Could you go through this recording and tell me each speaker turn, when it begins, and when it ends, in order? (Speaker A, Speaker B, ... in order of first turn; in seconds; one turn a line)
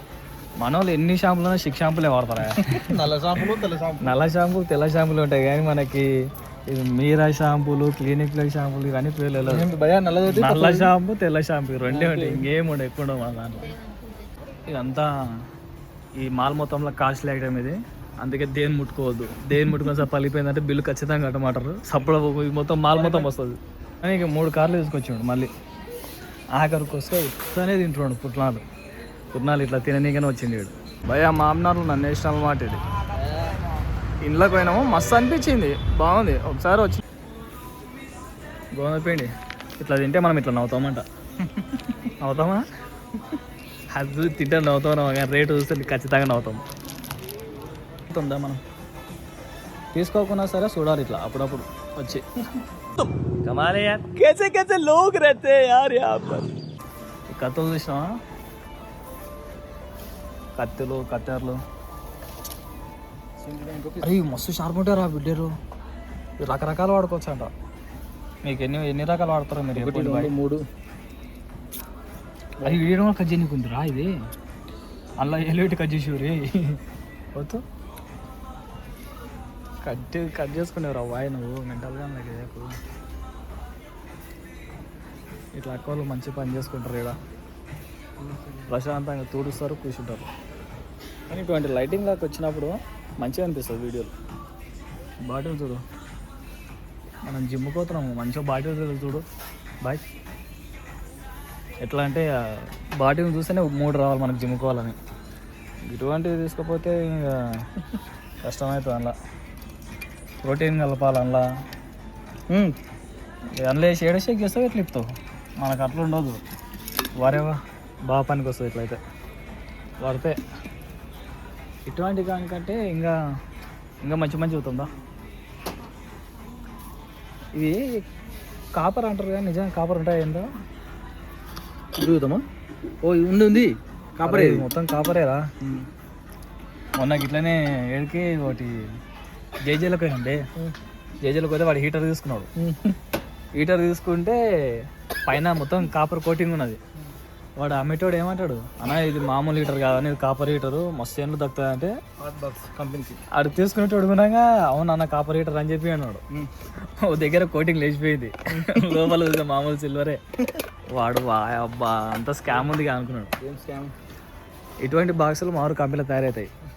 Speaker A: 0.6-3.0
Speaker B: 2.5-4.2
Speaker A: 4.0-6.1
Speaker A: 6.7-9.7
Speaker B: 9.4-10.9
Speaker A: 10.3-13.8
Speaker B: 11.9-12.5
Speaker A: 14.7-15.1
Speaker A: 16.2-25.5
Speaker B: 22.9-23.3
Speaker A: 26.6-28.6
Speaker A: 29.3-32.8
Speaker B: 33.1-33.6
Speaker A: 34.2-37.0
Speaker A: 38.8-41.0
Speaker B: 41.5-42.0
Speaker A: 42.2-42.6
Speaker A: 43.9-46.6
Speaker A: 48.1-48.6
Speaker A: 49.9-52.2
Speaker A: 53.2-56.5
Speaker A: 57.3-58.1
Speaker A: 60.6-61.6
Speaker B: 63.4-64.2
Speaker A: 64.0-65.5
Speaker A: 66.4-67.5
Speaker A: 68.5-70.3
Speaker B: 69.8-70.6
Speaker A: 72.6-74.1
Speaker A: 75.2-76.8
Speaker A: 77.3-77.6
Speaker A: 79.8-82.8
Speaker A: 85.6-87.2
Speaker B: 88.2-88.8
Speaker A: 88.7-90.3
Speaker A: 91.3-94.1
Speaker A: 95.2-95.8
Speaker A: 97.3-99.2
Speaker A: 101.8-105.0
Speaker A: 105.9-107.5
Speaker A: 108.4-109.1
Speaker A: 110.4-111.5
Speaker B: 112.5-112.8
Speaker A: 113.6-115.1
Speaker A: 115.6-116.4
Speaker A: 117.2-117.6
Speaker A: 118.1-119.0
Speaker A: 120.0-120.4
Speaker A: 121.9-123.2
Speaker A: 124.0-124.9
Speaker A: 127.6-127.9
Speaker A: 128.8-130.5
Speaker B: 132.0-132.4
Speaker B: 133.0-134.7
Speaker A: 134.2-135.4
Speaker B: 135.6-135.9
Speaker A: 137.0-138.9
Speaker A: 139.7-140.5
Speaker A: 141.2-142.5
Speaker A: 143.6-146.8
Speaker A: 147.6-151.9
Speaker B: 152.2-153.2
Speaker A: 153.3-156.2
Speaker A: 157.0-160.2
Speaker B: 158.5-159.0
Speaker A: 160.9-163.3
Speaker B: 163.4-163.9
Speaker A: 164.8-166.5